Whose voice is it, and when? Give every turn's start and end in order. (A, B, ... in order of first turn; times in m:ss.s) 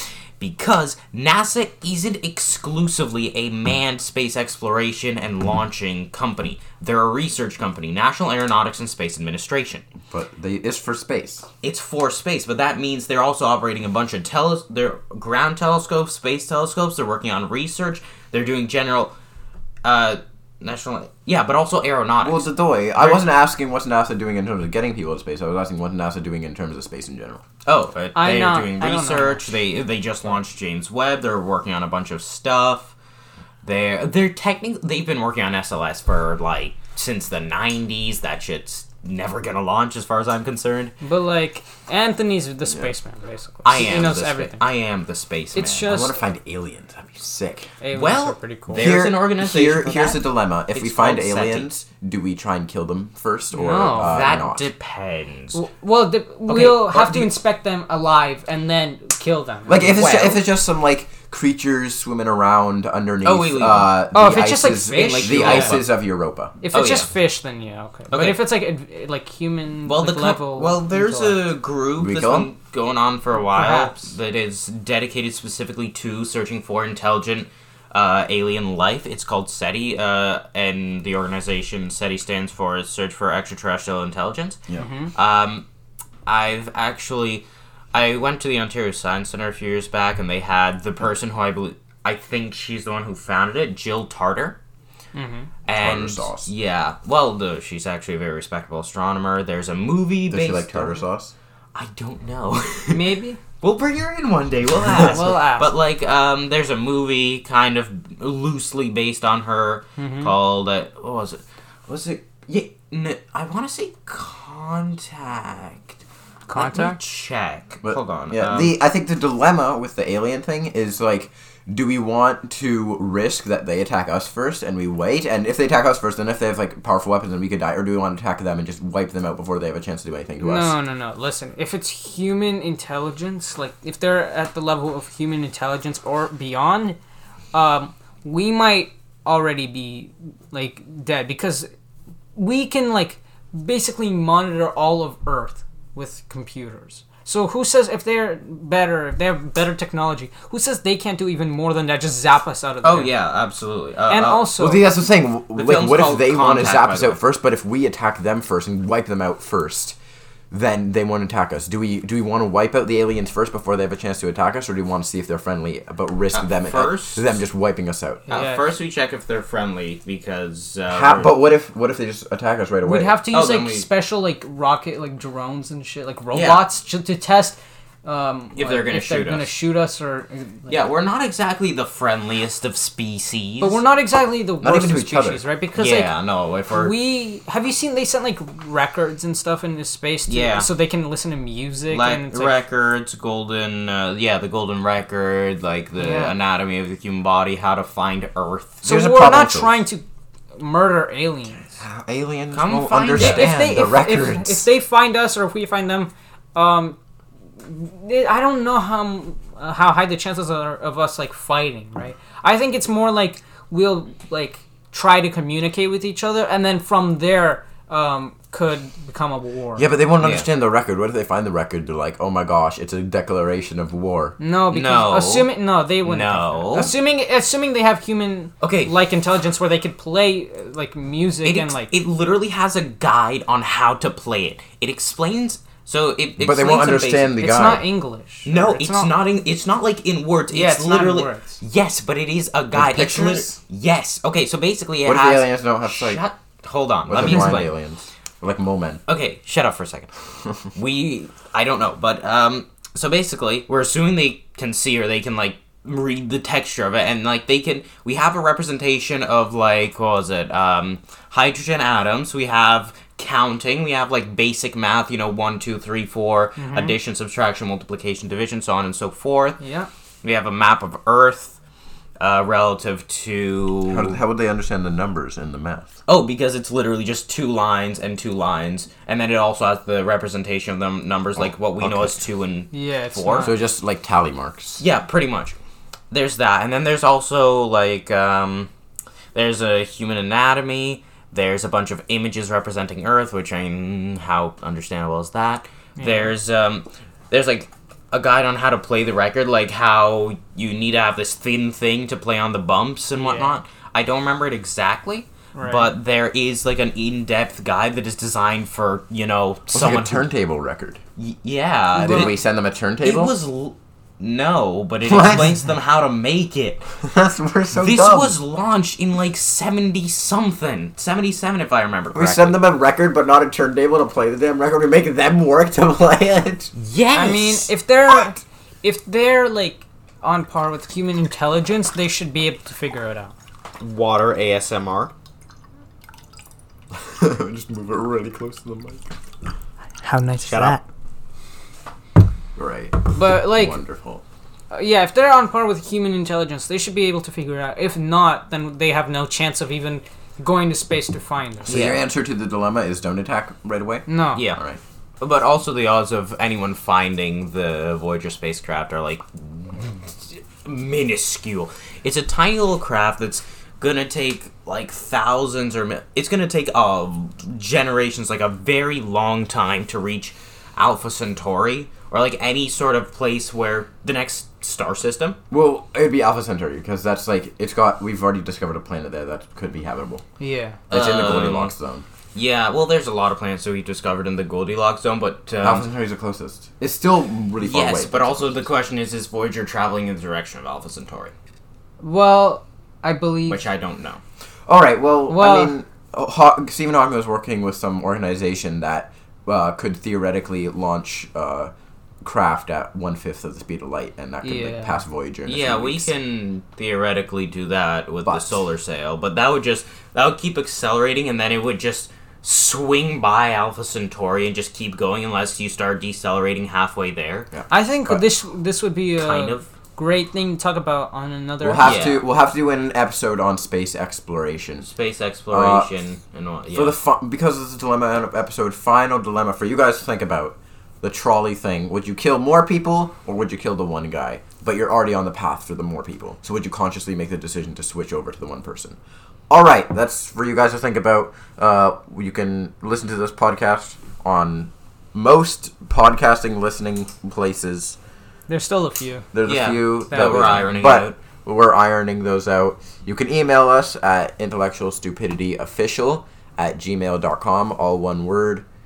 0:00.4-0:09.8 A
0:10.1-0:11.5 B
0:11.6-0:19.1 A
0:19.8-0:23.2 A
0:22.2-0:27.4 B
0:27.6-0:32.9 A
0:28.1-0:29.5 C
0:33.6-0:40.9 A
0:41.0-0:44.6 C
0:43.6-0:46.0 A
0:45.5-0:46.2 C
0:45.8-0:47.7 B
0:47.8-0:48.9 C
0:47.9-0:51.7 A
0:48.7-0:54.7 B
0:53.5-0:54.3 C
0:53.9-0:55.6 A
0:55.5-0:59.9 C
0:56.5-0:57.4 A
0:59.7-1:06.5 B
0:59.7-1:00.4 A
1:03.2-1:04.0 A
1:04.1-1:05.8 C
1:04.9-1:05.9 A
1:06.6-1:11.4 C
1:06.7-1:07.1 A
1:08.1-1:08.4 A
1:09.8-1:24.6 A
1:12.0-1:12.5 B
1:13.4-1:14.1 C
1:24.8-1:25.1 C
1:25.1-1:25.6 A
1:26.2-1:34.6 A
1:35.1-1:35.5 C
1:35.6-1:41.0 A
1:35.7-1:36.5 B
1:40.3-1:41.3 B
1:41.7-1:56.0 A
1:42.9-1:43.4 C
1:44.9-1:45.8 C
1:50.0-1:50.3 C
1:56.5-1:57.0 C
1:56.5-1:58.8 A
1:57.8-2:10.8 B
2:10.4-2:17.0 C
2:17.5-2:21.7 C
2:22.3-2:33.1 C
2:32.8-2:34.6 A
2:34.1-2:34.8 C
2:34.6-2:40.0 B
2:35.5-2:37.2 A
2:40.5-2:48.3 B
2:46.3-2:47.3 A
2:48.3-2:48.7 C
2:48.3-2:51.3 A
2:50.9-2:53.2 B
2:52.8-3:00.8 C
2:53.3-2:53.9 A
2:56.3-2:56.7 A
2:58.5-2:59.6 A
3:00.7-3:03.8 A
3:03.6-3:06.1 C
3:04.6-3:05.4 B
3:05.7-3:07.0 A
3:06.7-3:12.6 C
3:10.3-3:10.7 A
3:11.9-3:18.8 A
3:16.0-3:16.3 C
3:18.8-3:20.0 C
3:18.8-3:19.8 B
3:20.5-3:21.8 C
3:21.8-3:24.6 B
3:22.5-3:23.8 A
3:23.2-3:27.0 C
3:27.6-3:39.9 C
3:39.8-3:44.4 B
3:40.2-3:40.4 A
3:44.4-3:51.9 C
3:44.7-3:46.9 A
3:48.6-3:48.9 A
3:51.4-3:57.4 A
3:56.4-3:57.8 B
3:57.4-3:59.1 C
3:58.4-4:07.7 A
4:00.5-4:01.6 C
4:02.7-4:03.6 B
4:05.0-4:06.2 B
4:07.1-4:09.0 B
4:09.1-4:10.1 A
4:10.7-4:29.6 A
4:26.6-4:27.0 C
4:29.6-4:29.9 C
4:30.2-4:31.6 A
4:32.2-4:34.2 A
4:33.9-4:35.9 B
4:36.0-4:43.6 A
4:41.4-4:42.2 B
4:42.7-4:43.5 C
4:43.4-4:44.8 B
4:44.8-4:45.6 A
4:46.1-4:48.7 A
4:49.3-5:10.3 A
4:56.0-4:56.3 C
5:03.2-5:03.6 C
5:05.5-5:05.9 C
5:09.7-5:11.0 B
5:11.2-5:12.4 A
5:11.9-5:13.4 B
5:13.0-5:16.8 A
5:15.0-5:15.5 B
5:17.0-5:18.4 B
5:17.7-5:22.6 A
5:22.1-5:26.7 B
5:26.8-5:27.7 A
5:27.1-5:33.3 C
5:33.8-5:35.1 A
5:36.9-5:39.1 B
5:40.0-5:40.8 C
5:40.5-5:40.8 A
5:42.6-5:44.2 B
5:43.1-5:43.8 C
5:44.7-5:51.8 C
5:51.7-5:52.0 A
5:51.7-5:54.8 B
5:54.1-5:54.4 C
5:54.3-5:54.6 A
5:55.2-6:15.4 A
6:15.5-6:20.2 B
6:20.4-6:20.8 C
6:20.9-6:21.7 A
6:20.9-6:22.0 B
6:22.3-6:25.9 A
6:25.6-6:28.7 B
6:27.6-6:31.3 A
6:32.0-6:33.6 C
6:33.5-6:34.2 A
6:34.7-6:41.7 B
6:35.3-6:35.7 C
6:42.2-6:46.1 B
6:44.4-6:45.0 C
6:45.4-6:57.5 A
6:48.2-6:48.6 B
6:57.5-6:58.3 B
6:57.7-7:02.0 C
6:59.2-6:59.7 A
7:01.6-7:04.9 B
7:01.8-7:02.2 A
7:04.8-7:07.0 A
7:05.5-7:05.9 B
7:06.7-7:19.0 B
7:19.5-7:28.0 B
7:28.5-7:29.3 C
7:29.3-7:38.6 B
7:29.4-7:31.2 A
7:30.1-7:30.6 C